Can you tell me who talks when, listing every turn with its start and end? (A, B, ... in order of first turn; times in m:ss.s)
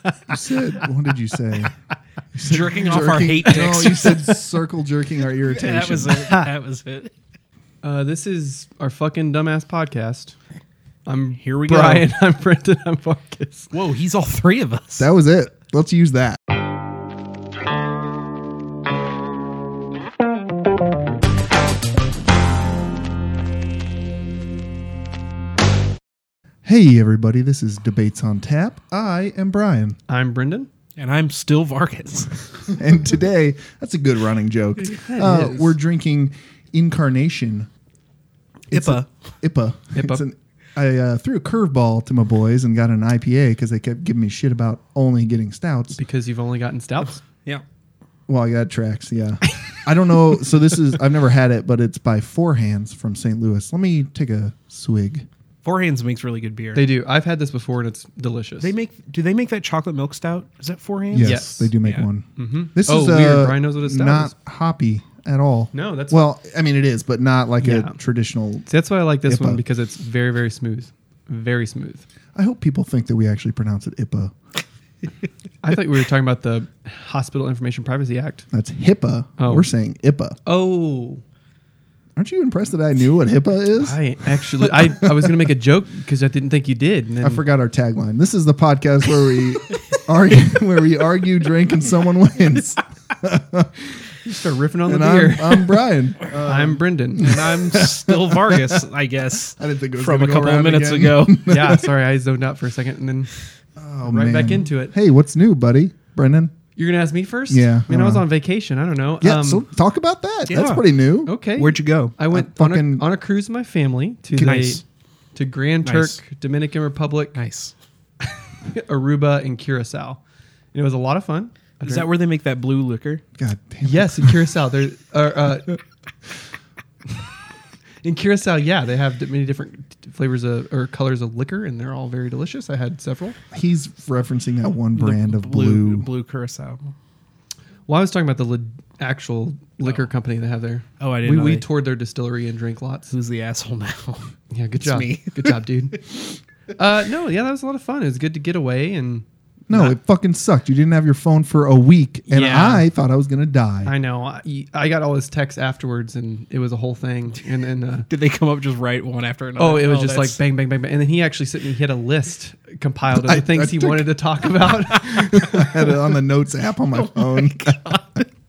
0:00.3-0:01.7 A
0:02.3-0:06.4 A
0:02.4-0:04.3 B
0:05.5-0:07.1 B
0:07.8-0:10.4 C
0:11.0-0:13.7 C
0:11.4-0:12.0 B
0:13.7-0:15.1 B
0:15.0-0:16.4 A
0:26.6-0:30.0 A
0:30.1-0:30.7 C
0:31.0-0:32.4 B
0:32.7-0:37.7 A
0:34.8-0:35.8 C
0:38.7-0:39.1 B
0:38.7-0:46.0 A
0:39.9-0:40.2 C
0:46.0-0:47.2 C
0:48.3-0:55.3 A
0:55.6-0:56.8 B
0:56.7-0:58.7 C
0:58.6-1:02.0 B
1:01.1-1:08.7 A
1:01.2-1:01.7 C
1:02.4-1:04.3 C
1:05.7-1:06.2 C
1:07.6-1:08.0 C
1:08.7-1:12.0 C
1:09.2-1:09.6 A
1:12.3-1:14.3 A
1:15.6-1:18.4 C
1:18.5-1:20.4 A
1:19.4-1:19.7 C
1:20.4-1:21.2 C
1:22.2-1:25.3 A
1:23.8-1:27.4 C
1:27.2-1:33.7 A
1:34.1-1:37.3 C
1:34.8-1:38.8 A
1:37.2-1:41.6 B
1:39.6-1:41.8 A
1:41.5-1:43.5 C
1:43.8-1:46.5 A
1:44.0-1:44.9 C
1:46.8-1:49.6 C
1:47.5-1:48.2 A
1:49.2-1:51.3 A
1:50.5-1:50.8 B
1:51.2-1:54.8 C
1:51.5-1:52.1 B
1:52.3-1:53.0 A
1:54.4-1:54.8 B
1:55.3-1:57.4 C
1:55.8-1:56.2 B
1:57.4-1:57.7 B
1:58.2-2:00.2 C
2:00.7-2:02.1 C
2:01.8-2:03.2 B
2:03.4-2:04.6 A
2:03.8-2:05.8 C
2:08.0-2:13.4 C
2:13.5-2:16.1 A
2:15.0-2:16.9 B
2:17.9-2:23.1 C
2:21.0-2:21.6 B
2:23.1-2:25.6 B
2:24.5-2:26.2 C
2:26.8-2:29.9 C
2:29.7-2:33.9 A
2:32.3-2:32.8 B
2:33.8-2:38.1 C
2:38.1-2:40.4 B
2:39.6-2:46.0 C
2:43.1-2:44.1 A
2:45.2-2:47.8 A
2:46.9-2:48.3 B